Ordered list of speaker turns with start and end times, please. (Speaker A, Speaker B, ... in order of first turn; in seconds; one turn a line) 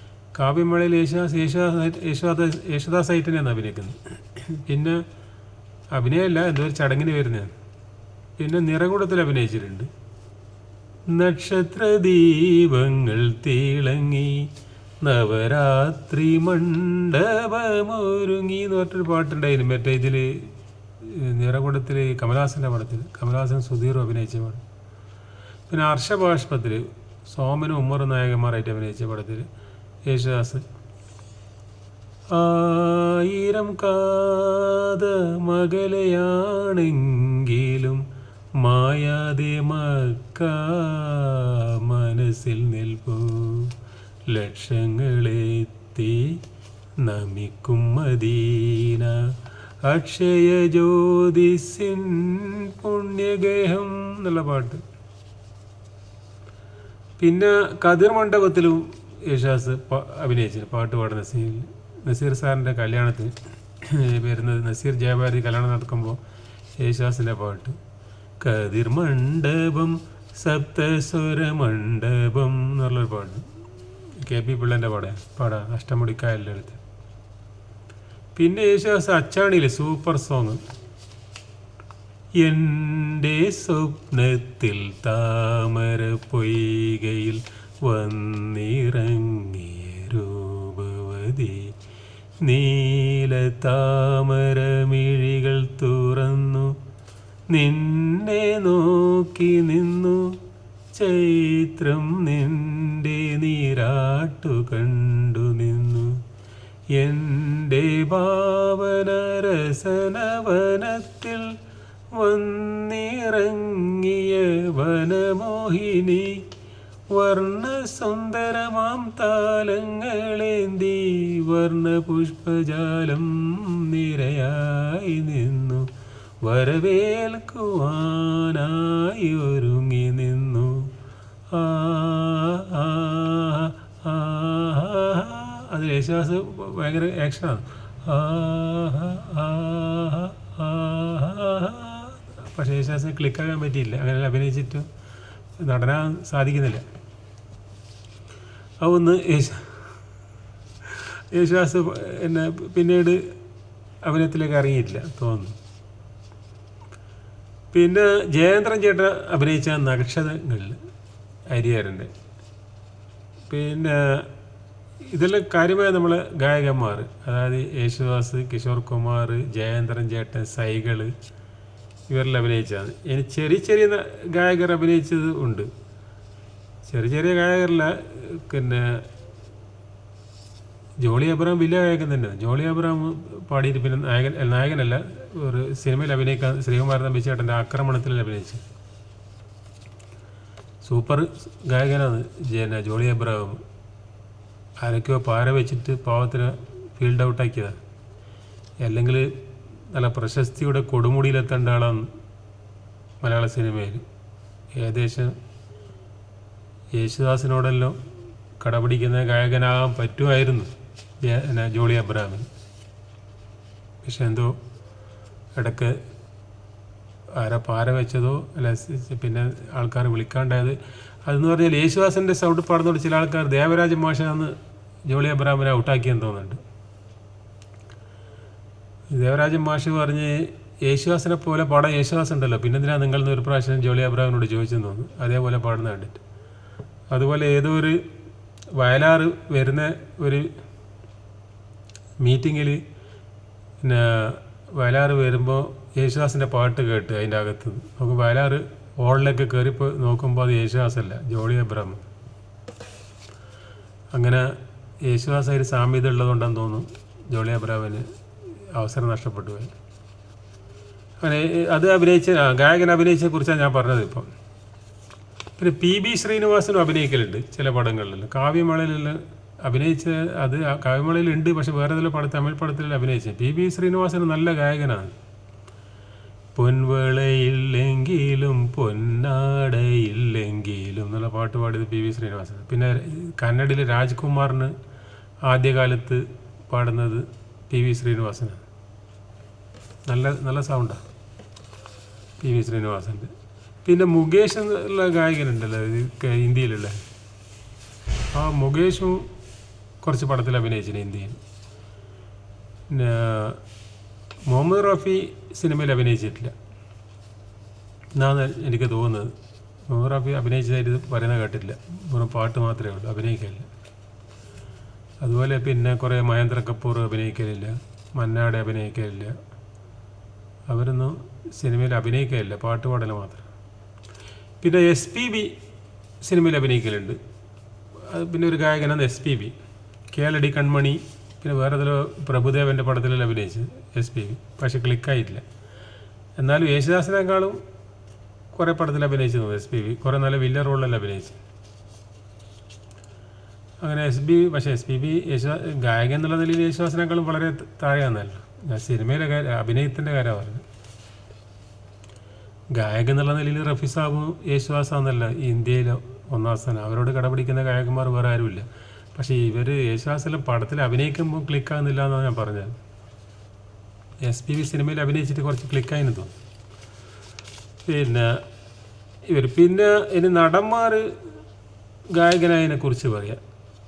Speaker A: 0.3-5.0
Speaker A: 5.9-7.5
Speaker A: 8.4-9.9
Speaker A: 11.1-14.5
Speaker A: 15.0-20.5
Speaker A: 21.0-24.6
Speaker A: 25.7-29.4
Speaker A: 30.1-30.6
Speaker A: 32.3-38.0
Speaker A: 38.6-43.7
Speaker A: 44.3-46.4
Speaker A: 47.0-54.8
Speaker A: 57.2-66.2
Speaker A: 66.8-67.8
Speaker A: 68.4-73.5
Speaker A: 74.2-76.8
Speaker A: 78.4-80.6
Speaker A: 82.4-91.7
Speaker A: 92.4-96.8
Speaker A: 97.5-100.4
Speaker A: 100.9-106.2
Speaker A: 106.9-111.6
Speaker A: 112.1-116.4
Speaker A: 117.1-125.9
Speaker A: 126.4-130.9
Speaker A: 131.5-144.9
Speaker A: 145.6-146.8
Speaker A: 148.8-149.9
Speaker A: 150.8-153.2
Speaker A: 154.0-155.5
Speaker A: 157.7-160.8
Speaker A: 161.5-162.1
Speaker A: 163.5-164.3
Speaker A: 165.1-171.1
Speaker A: 172.1-175.7
Speaker A: 176.8-179.1
Speaker A: 181.0-188.6
Speaker A: 190.8-193.6
Speaker A: 194.8-197.8
Speaker A: 198.8-202.1
Speaker A: 203.2-204.0
Speaker A: 204.8-205.3
Speaker A: 206.9-208.0
Speaker A: 208.6-212.5
Speaker A: 214.0-214.6
Speaker A: 215.6-216.0
Speaker A: 217.3-224.5
Speaker A: 225.1-226.6
Speaker A: 229.1-236.2
Speaker A: 237.1-238.0
Speaker A: 238.8-240.5
Speaker A: 242.2-242.8
Speaker A: 243.8-252.0
Speaker A: 254.1-254.5
Speaker A: 255.0-259.7
Speaker A: 261.2-264.3
Speaker A: 265.6-275.1
Speaker A: 276.5-284.7
Speaker A: 285.4-288.6
Speaker A: 290.1-291.0
Speaker A: 292.4-293.3
Speaker A: 293.8-297.0
Speaker A: 298.3-299.3
Speaker A: 300.0-301.4
Speaker A: 302.9-303.6
Speaker A: 304.5-306.5
Speaker A: 308.2-309.3
Speaker A: 309.9-313.7
Speaker A: 315.2-319.4
Speaker A: 320.7-323.4
Speaker A: 324.6-325.5
Speaker A: 326.2-327.2
Speaker A: 328.1-329.6
Speaker A: 330.1-335.4
Speaker A: 336.4-337.6
Speaker A: 338.5-341.4
Speaker A: 343.8-350.6
Speaker A: 352.7-362.7
Speaker A: 364.2-366.3
Speaker A: 367.9-368.4
Speaker A: 369.3-371.1
Speaker A: 372.1-373.4